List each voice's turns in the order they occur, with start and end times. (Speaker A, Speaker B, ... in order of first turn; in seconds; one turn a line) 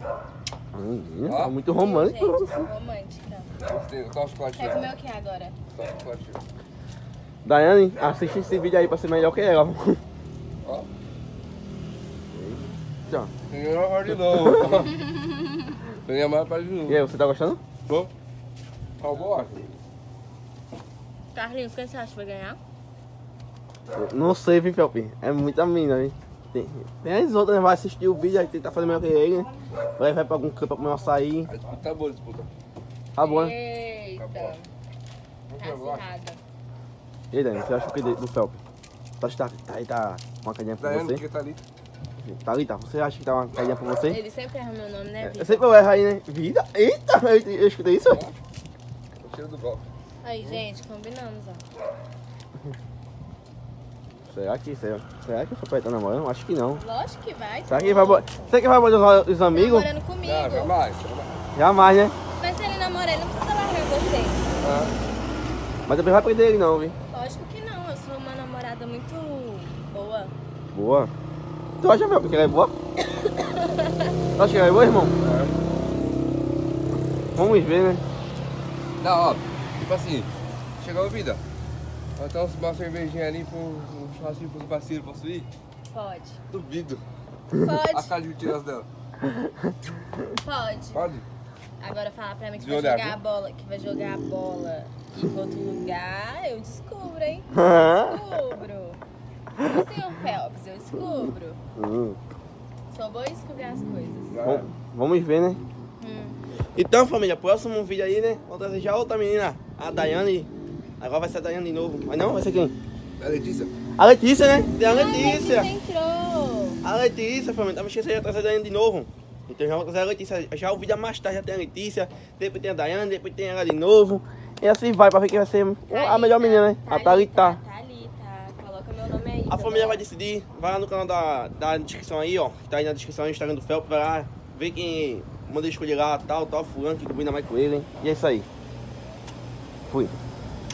Speaker A: 0.7-2.7
Speaker B: 1.3-1.6
Speaker C: 1.7-3.5
Speaker B: 3.6-4.9
Speaker C: 4.5-5.5
Speaker B: 5.7-6.4
Speaker A: 7.4-10.0
Speaker A: 12.3-13.3
Speaker B: 13.5-15.0
Speaker C: 15.0-15.7
Speaker B: 16.0-17.0
Speaker A: 16.9-17.6
Speaker B: 19.0-19.8
Speaker C: 21.3-22.6
Speaker A: 23.9-31.5
Speaker B: 31.4-32.5
Speaker A: 33.1-33.5
Speaker C: 33.2-34.7
Speaker B: 34.2-34.6
Speaker B: 35.5-36.0
Speaker C: 35.6-36.4
Speaker A: 37.3-38.6
Speaker A: 39.2-41.2
Speaker B: 40.8-41.6
Speaker A: 42.2-44.2
Speaker C: 44.0-45.6
Speaker A: 45.2-48.2
Speaker B: 48.0-48.4
Speaker B: 49.2-49.9
Speaker C: 50.2-51.6
Speaker A: 54.3-56.8
Speaker C: 56.7-58.5
Speaker A: 57.7-59.9
Speaker C: 59.5-60.7
Speaker B: 60.2-61.5
Speaker A: 61.5-62.1
Speaker C: 62.4-64.5
Speaker B: 64.6-64.9
Speaker A: 65.9-66.9
Speaker C: 67.1-70.3
Speaker A: 70.7-71.1
Speaker A: 71.8-72.7
Speaker C: 73.1-74.1
Speaker A: 74.4-75.1
Speaker B: 75.1-75.5
Speaker A: 77.3-78.0
Speaker B: 79.0-81.4
Speaker B: 82.2-85.5
Speaker C: 85.9-86.4
Speaker B: 86.5-87.0
Speaker C: 87.5-88.1
Speaker B: 87.9-88.9
Speaker A: 89.2-89.5
Speaker C: 90.4-91.1
Speaker B: 90.9-91.2
Speaker C: 91.8-99.0
Speaker B: 92.6-93.2
Speaker A: 97.5-98.2
Speaker C: 99.6-101.6
Speaker A: 101.8-102.2
Speaker C: 102.9-104.5
Speaker B: 104.3-104.6
Speaker A: 104.4-105.6
Speaker C: 106.0-106.4
Speaker A: 106.8-110.5
Speaker A: 111.0-112.8
Speaker B: 113.2-113.7
Speaker A: 114.0-115.7
Speaker C: 114.8-116.8
Speaker A: 116.8-127.6
Speaker C: 125.9-130.1
Speaker A: 129.5-138.5
Speaker A: 139.9-140.1